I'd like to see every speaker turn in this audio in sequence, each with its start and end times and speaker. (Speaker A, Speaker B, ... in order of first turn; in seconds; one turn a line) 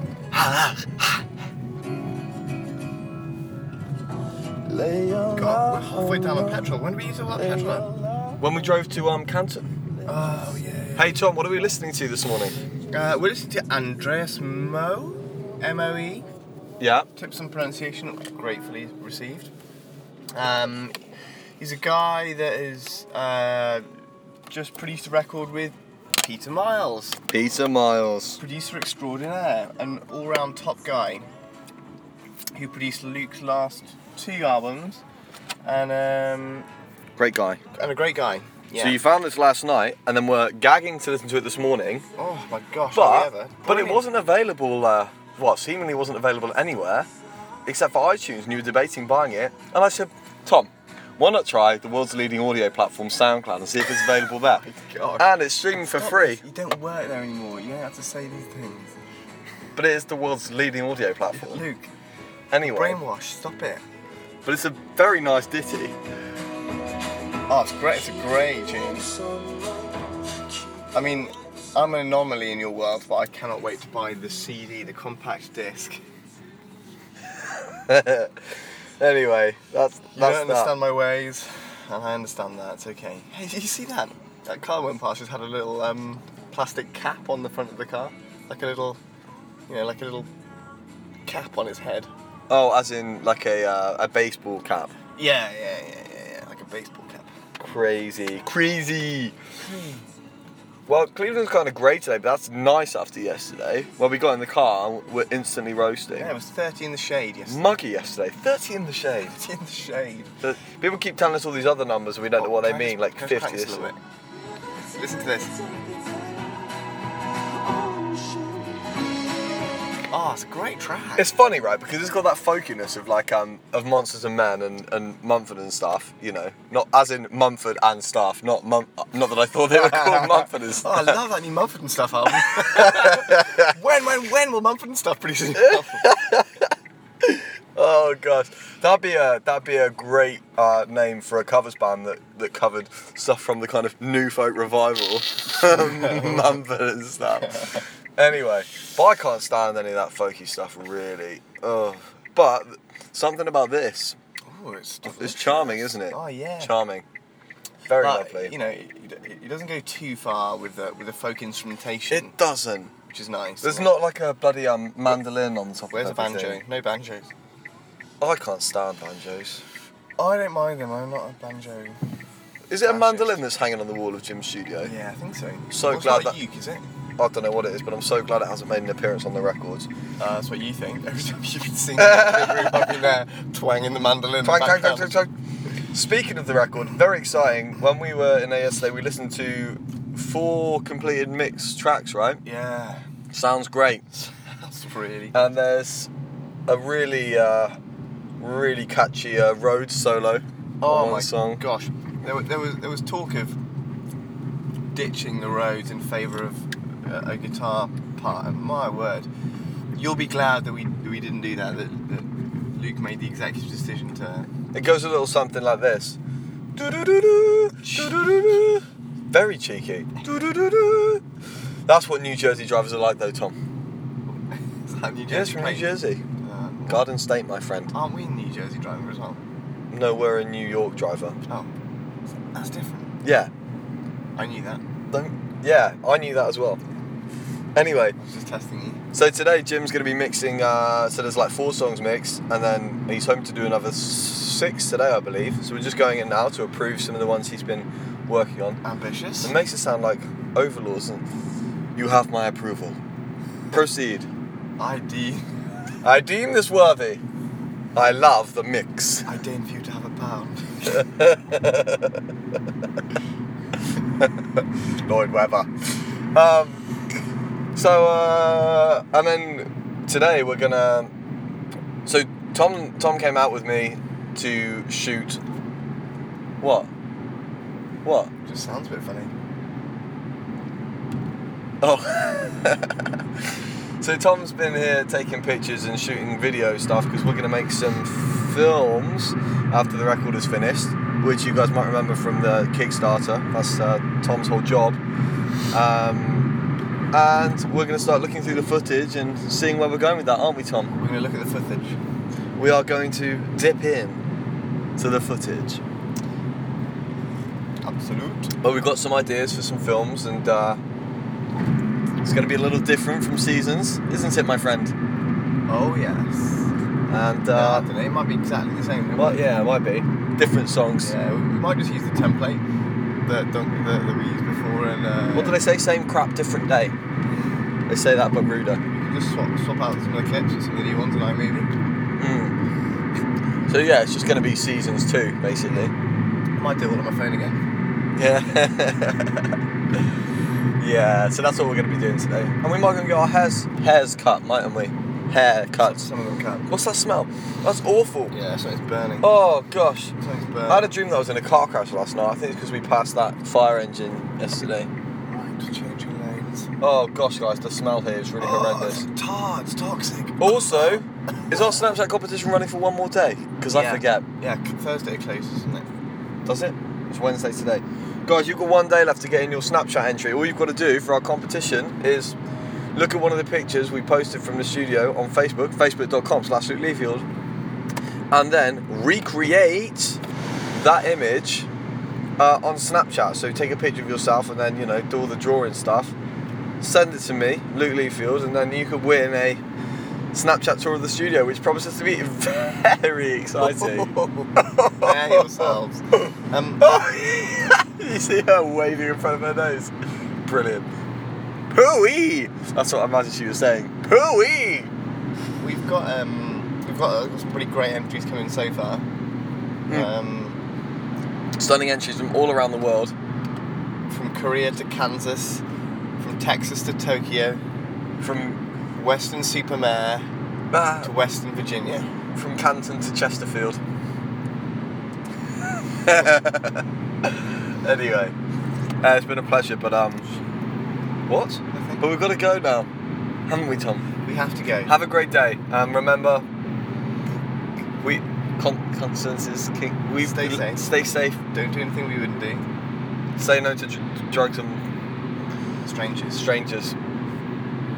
Speaker A: 0.3-1.2
Speaker A: 4.8-5.4
Speaker B: 5.3-8.0
Speaker A: 8.4-9.7
Speaker B: 10.1-11.2
Speaker A: 11.0-12.6
Speaker B: 12.9-16.3
Speaker A: 16.8-17.1
Speaker B: 17.2-19.5
Speaker B: 20.4-21.0
Speaker B: 21.6-23.9
Speaker B: 24.5-27.2
Speaker A: 27.3-28.4
Speaker B: 28.4-31.3
Speaker B: 32.6-35.0
Speaker B: 35.6-36.7
Speaker A: 37.2-37.6
Speaker B: 37.7-39.0
Speaker A: 38.8-42.1
Speaker B: 42.2-44.0
Speaker A: 42.9-47.1
Speaker A: 47.7-54.6
Speaker B: 54.6-55.3
Speaker A: 55.2-56.4
Speaker B: 55.8-59.0
Speaker A: 59.8-61.6
Speaker B: 61.4-61.9
Speaker A: 62.5-63.0
Speaker B: 62.6-63.8
Speaker A: 64.4-66.0
Speaker B: 67.5-69.2
Speaker B: 70.9-76.0
Speaker A: 77.9-78.4
Speaker A: 79.0-80.7
Speaker B: 80.2-89.0
Speaker B: 89.7-90.3
Speaker B: 91.3-92.1
Speaker A: 92.5-94.9
Speaker B: 95.2-97.3
Speaker A: 97.6-99.4
Speaker B: 99.6-100.0
Speaker A: 100.9-106.3
Speaker B: 106.2-107.7
Speaker A: 107.5-109.4
Speaker B: 109.3-110.3
Speaker A: 110.4-113.9
Speaker B: 112.4-114.0
Speaker B: 114.9-116.0
Speaker B: 117.8-118.6
Speaker B: 120.1-121.3
Speaker A: 121.2-131.2
Speaker B: 129.9-136.1
Speaker A: 132.5-133.5
Speaker A: 135.6-154.2
Speaker B: 145.9-146.5
Speaker B: 147.4-147.8
Speaker B: 154.5-156.7
Speaker A: 155.1-157.1
Speaker A: 157.9-158.5
Speaker B: 158.0-162.4
Speaker A: 162.1-162.9
Speaker B: 163.1-163.9
Speaker A: 163.6-166.6
Speaker B: 165.9-167.3
Speaker A: 168.2-169.6
Speaker B: 170.2-172.0
Speaker A: 172.7-174.9
Speaker B: 172.8-173.4
Speaker B: 174.8-176.9
Speaker A: 175.7-176.4
Speaker A: 177.2-179.9
Speaker B: 180.2-185.2
Speaker A: 182.0-183.0
Speaker A: 184.4-185.3
Speaker A: 185.9-192.4
Speaker B: 192.4-193.0
Speaker A: 193.3-194.1
Speaker B: 194.3-195.5
Speaker A: 195.3-196.1
Speaker A: 196.7-197.8
Speaker A: 198.4-201.6
Speaker B: 200.8-203.6
Speaker B: 204.9-209.3
Speaker B: 209.9-214.5
Speaker A: 214.7-216.2
Speaker A: 216.8-221.2
Speaker B: 217.8-218.3
Speaker A: 221.9-223.6
Speaker B: 224.5-227.1
Speaker A: 225.3-226.2
Speaker A: 226.9-227.9
Speaker B: 227.9-229.4
Speaker A: 229.9-231.4
Speaker B: 232.5-233.2
Speaker A: 233.2-233.5
Speaker B: 234.4-234.8
Speaker A: 235.1-236.8
Speaker A: 237.8-238.2
Speaker B: 238.2-239.0
Speaker A: 239.1-248.8
Speaker B: 248.8-249.5
Speaker A: 249.4-251.3
Speaker A: 252.0-253.0
Speaker A: 253.7-254.3
Speaker B: 254.8-255.5
Speaker A: 256.0-257.2
Speaker A: 257.9-259.3
Speaker B: 259.3-261.0
Speaker A: 260.9-262.2
Speaker A: 265.1-266.9
Speaker A: 267.8-271.1
Speaker A: 272.1-275.4
Speaker A: 276.6-276.9
Speaker A: 278.0-278.3
Speaker B: 278.4-279.3
Speaker A: 281.8-283.2
Speaker A: 284.0-295.0
Speaker A: 295.7-296.5
Speaker A: 297.1-300.9
Speaker B: 301.0-302.0
Speaker A: 302.6-304.2
Speaker A: 305.0-305.8
Speaker B: 307.8-308.5
Speaker A: 308.6-310.8
Speaker A: 312.2-314.9
Speaker B: 315.7-316.7
Speaker A: 317.1-317.9
Speaker B: 317.5-319.5
Speaker A: 319.1-321.1
Speaker B: 321.0-322.6
Speaker B: 323.2-325.6
Speaker A: 325.4-326.9
Speaker A: 327.9-328.8
Speaker B: 328.9-331.7
Speaker A: 332.2-332.6
Speaker A: 333.7-335.9
Speaker B: 335.7-335.9
Speaker B: 336.6-337.6
Speaker A: 338.2-339.6
Speaker A: 340.8-346.1
Speaker B: 345.8-346.7
Speaker A: 346.7-348.4
Speaker B: 348.3-349.3
Speaker A: 349.2-350.1
Speaker B: 350.2-350.9
Speaker A: 350.7-354.9
Speaker B: 355.3-356.7
Speaker A: 356.8-359.1
Speaker B: 358.4-361.8
Speaker A: 360.4-364.2
Speaker B: 363.7-365.9
Speaker A: 366.4-372.4
Speaker A: 372.9-377.2
Speaker A: 378.3-380.2
Speaker A: 380.7-381.7
Speaker A: 382.4-386.1
Speaker A: 386.8-389.6
Speaker A: 390.3-400.9
Speaker B: 393.6-396.9
Speaker A: 401.7-404.9
Speaker B: 405.6-409.1
Speaker B: 409.9-410.6
Speaker A: 411.6-413.1
Speaker B: 414.1-415.6
Speaker B: 416.2-417.6
Speaker A: 418.2-418.6
Speaker B: 419.0-420.3
Speaker A: 420.7-421.1
Speaker B: 421.0-422.1
Speaker A: 422.3-423.8
Speaker A: 426.0-428.3
Speaker A: 429.0-430.3
Speaker A: 431.3-432.9
Speaker B: 431.7-432.0
Speaker A: 433.5-434.1
Speaker B: 434.2-434.9
Speaker A: 434.9-436.4
Speaker A: 438.0-441.4
Speaker B: 440.2-442.6
Speaker A: 443.4-444.9
Speaker B: 445.8-446.5
Speaker A: 446.3-446.9